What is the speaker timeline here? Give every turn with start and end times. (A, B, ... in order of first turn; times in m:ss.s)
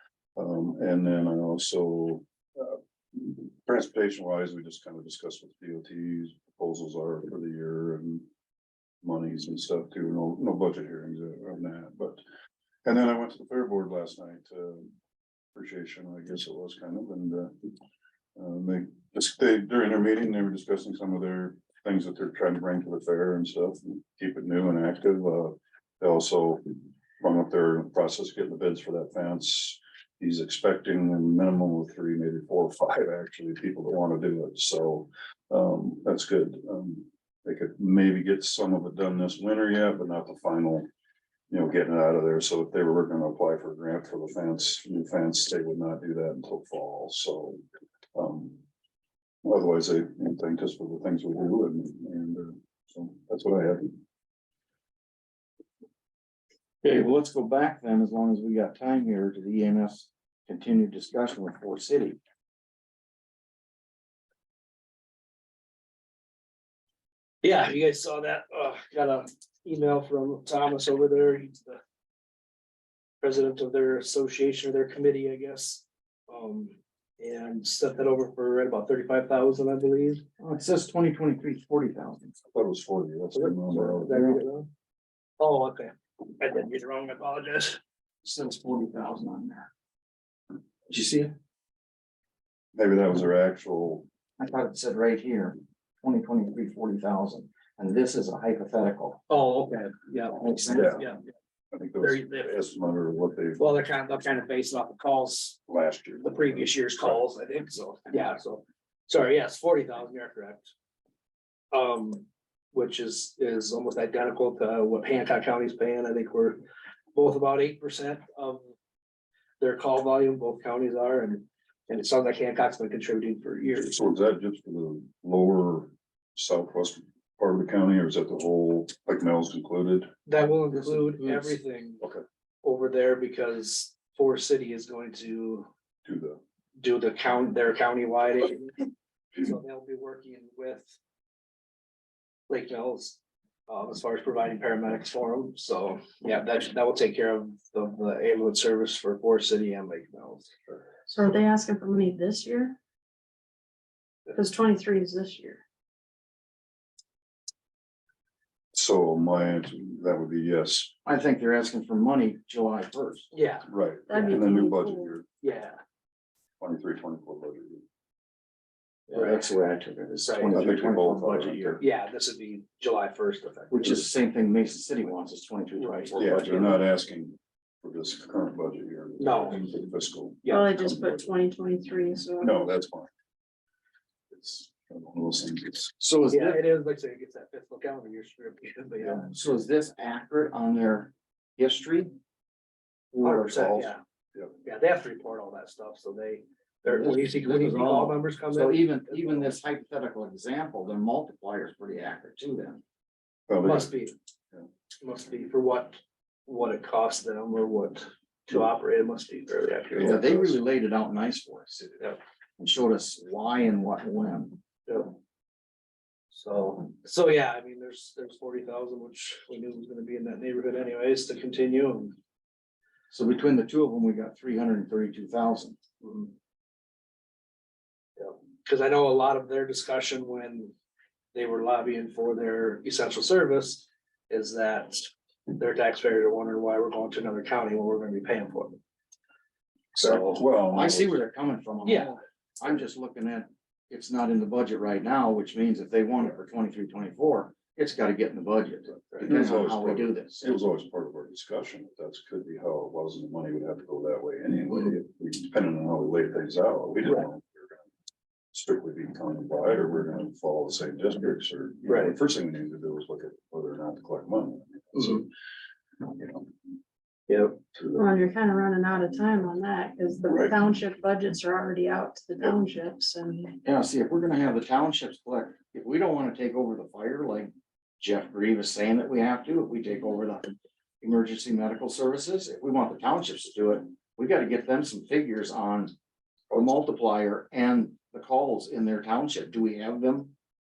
0:00.4-0:08.3 A
0:09.0-0:12.2 A
0:12.8-0:14.9 A
0:15.5-0:17.7 A
0:18.4-0:26.6 A
0:27.2-0:40.9 A
0:41.5-0:47.6 A
0:48.2-0:48.6 A
0:49.4-0:54.0 A
0:56.8-1:02.2 B
1:07.4-1:11.8 C
1:13.2-1:20.2 C
1:20.4-1:22.4 B
1:22.5-1:24.3 A
1:23.3-1:24.7 C
1:25.4-1:27.8 C
1:28.2-1:29.7 B
1:30.9-1:31.3 B
1:32.8-1:34.1 A
1:34.4-1:39.2 B
1:39.3-1:41.2 C
1:40.3-1:41.0 B
1:40.8-1:41.0 A
1:41.7-1:43.6 A
1:42.0-1:42.6 C
1:43.6-1:45.6 C
1:45.7-1:47.2 A
1:46.2-1:50.7 C
1:51.7-1:56.6 C
1:57.1-1:58.6 C
1:59.6-2:04.0 C
2:03.9-2:10.1 A
2:10.3-2:12.0 C
2:10.8-2:11.4 B
2:12.6-2:15.7 C
2:16.0-2:16.4 A
2:16.8-2:20.9 C
2:22.5-2:30.8 C
2:31.1-2:32.8 D
2:34.4-2:35.6 D
2:38.7-2:40.9 A
2:41.1-2:43.3 B
2:43.3-2:43.7 C
2:43.7-2:45.2 A
2:44.1-2:45.1 D
2:45.4-2:45.8 C
2:46.6-2:47.8 A
2:49.1-2:51.8 B
2:49.1-2:49.4 C
2:50.2-2:50.5 C
2:50.5-2:51.8 A
2:51.8-2:54.0 C
2:53.7-2:56.8 B
2:55.8-2:56.1 C
2:56.2-3:01.3 A
2:59.2-2:59.7 C
3:00.5-3:02.7 D
3:02.4-3:03.1 A
3:04.4-3:06.0 A
3:06.0-3:06.6 B
3:06.3-3:09.3 C
3:09.1-3:12.1 B
3:13.1-3:13.9 B
3:13.2-3:14.0 C
3:14.6-3:19.5 C
3:16.9-3:22.8 B
3:23.5-3:23.9 A
3:23.6-3:24.1 C
3:25.0-3:30.2 C
3:29.9-3:30.5 A
3:30.0-3:32.0 B
3:32.6-3:34.6 B
3:34.9-3:35.2 C
3:36.3-3:42.2 C
3:43.1-3:45.8 B
3:46.0-3:46.3 C
3:48.2-3:50.7 C
3:51.3-3:58.8 C
3:59.9-4:01.2 A
4:00.6-4:10.6 B
4:01.8-4:02.1 C
4:09.2-4:17.8 A
4:18.5-4:25.3 A
4:21.9-4:22.2 C
4:26.1-4:26.4 A
4:27.3-4:27.6 C
4:28.0-4:33.6 D
4:30.3-4:30.5 A
4:33.6-4:45.9 B
4:46.5-4:50.3 B